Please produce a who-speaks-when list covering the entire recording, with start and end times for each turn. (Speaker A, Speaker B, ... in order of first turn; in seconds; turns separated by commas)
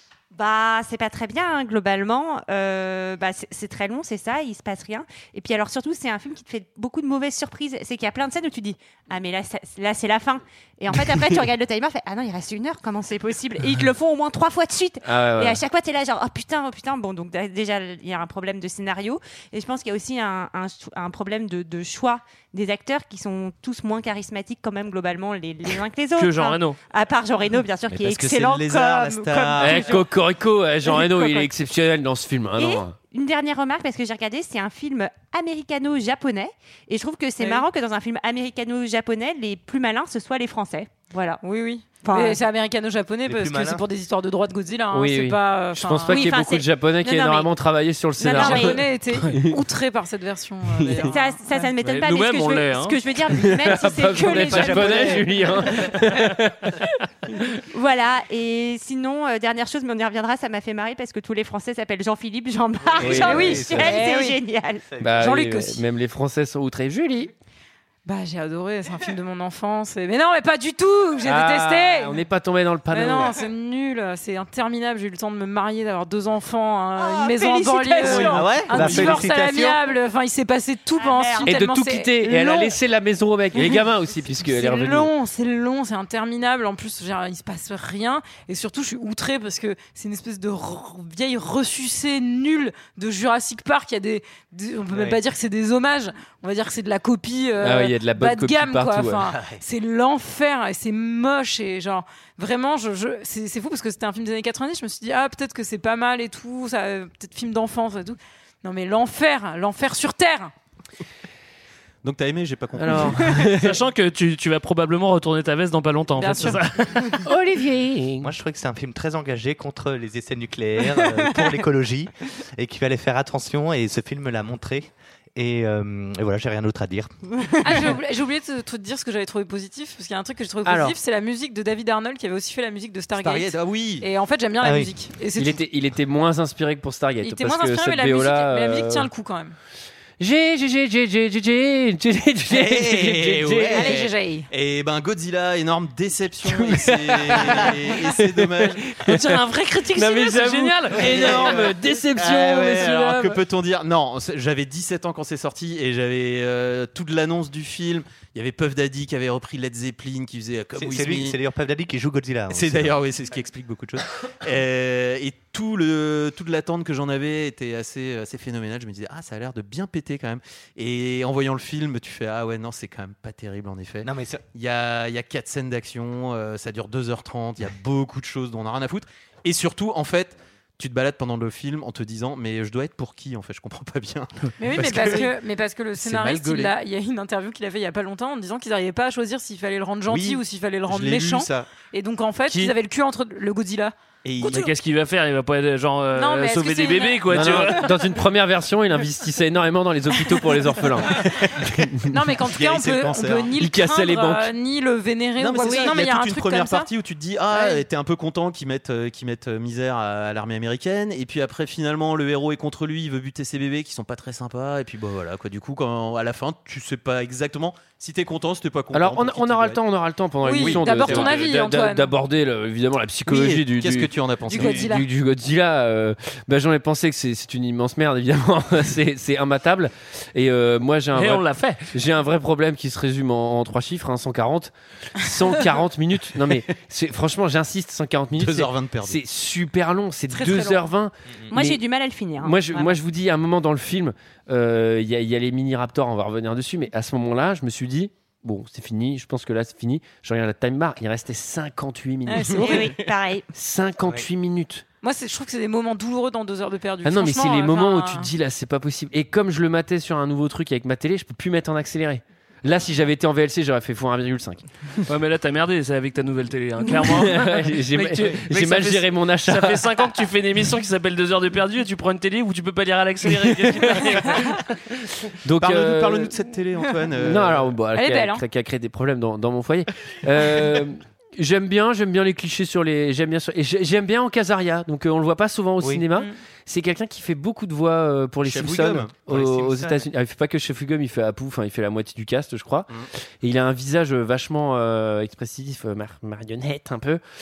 Speaker A: 0.3-30.1, Speaker B: 15.1-15.6, Speaker C: 26.2-26.8, Speaker D: 27.9-30.0, Speaker B: 29.6-33.0, Speaker A: 30.9-31.5, Speaker A: 32.6-41.4, Speaker E: 37.4-37.7, Speaker E: 41.4-46.4, Speaker A: 42.0-42.4, Speaker F: 43.3-43.9, Speaker B: 44.9-49.6, Speaker A: 46.1-47.5, Speaker A: 48.2-48.9, Speaker E: 48.3-51.7, Speaker B: 50.8-51.0, Speaker A: 51.0-55.9, Speaker C: 51.8-53.0, Speaker B: 53.3-57.4, Speaker F: 54.5-55.2, Speaker A: 57.7-65.0, Speaker B: 63.0-64.0, Speaker F: 63.0-63.9, Speaker E: 63.2-64.4, Speaker B: 65.0-67.3, Speaker E: 65.2-65.8, Speaker E: 68.1-72.2, Speaker B: 71.2-73.3, Speaker E: 72.9-82.7, Speaker A: 77.0-79.0, Speaker B: 78.0-79.2, Speaker F: 78.3-79.8, Speaker A: 81.0-81.6, Speaker B: 81.4-85.1, Speaker E: 84.3-110.5, Speaker F: 94.9-95.2, Speaker B: 97.6-99.2, Speaker F: 99.4-99.6, Speaker D: 112.0-113.4, Speaker B: 112.8-113.7, Speaker C: 113.5-117.2, Speaker E: 116.2-117.1, Speaker B: 117.2-118.3, Speaker F: 118.2-127.9, Speaker E: 127.6-135.6, Speaker B: 130.7-130.9, Speaker D: 133.2-134.1, Speaker F: 134.6-134.9, Speaker B: 135.4-139.1, Speaker E: 137.2-139.6, Speaker B: 140.2-143.8, Speaker D: 142.5-148.8, Speaker E: 143.7-144.5, Speaker B: 146.4-149.4, Speaker C: 149.0-151.3, Speaker B: 149.9-153.4, Speaker D: 151.1-161.4, Speaker F: 160.7-163.0, Speaker D: 162.5-185.4, Speaker F: 174.1-174.4, Speaker E: 184.6-194.7, Speaker D: 186.0-186.8, Speaker D: 190.1-191.7, Speaker D: 194.2-194.7, Speaker C: 194.5-197.9, Speaker E: 196.2-197.8, Speaker B: 197.3-202.1, Speaker E: 202.1-206.9, Speaker D: 202.5-203.5, Speaker B: 203.6-204.5, Speaker D: 205.4-219.8, Speaker A: 205.6-206.0, Speaker E: 207.5-207.8, Speaker B: 218.9-241.8, Speaker E: 220.4-222.2, Speaker D: 220.5-221.5, Speaker D: 223.3-225.0, Speaker E: 224.5-225.1, Speaker C: 231.2-231.8, Speaker D: 238.4-239.2, Speaker E: 240.3-240.8, Speaker A: 241.5-242.9, Speaker B: 242.4-252.7, Speaker E: 252.3-252.9, Speaker A: 252.6-253.5, Speaker B: 253.5-254.8, Speaker E: 255.0-258.3, Speaker B: 257.0-264.6, Speaker C: 265.1-274.8, Speaker B: 267.0-269.9, Speaker B: 273.3-274.4, Speaker B: 275.4-276.4, Speaker D: 275.6-277.8, Speaker B: 277.2-292.9, Speaker E: 277.9-278.4, Speaker D: 288.4-289.3, Speaker F: 289.3-290.0, Speaker B: 293.4-297.2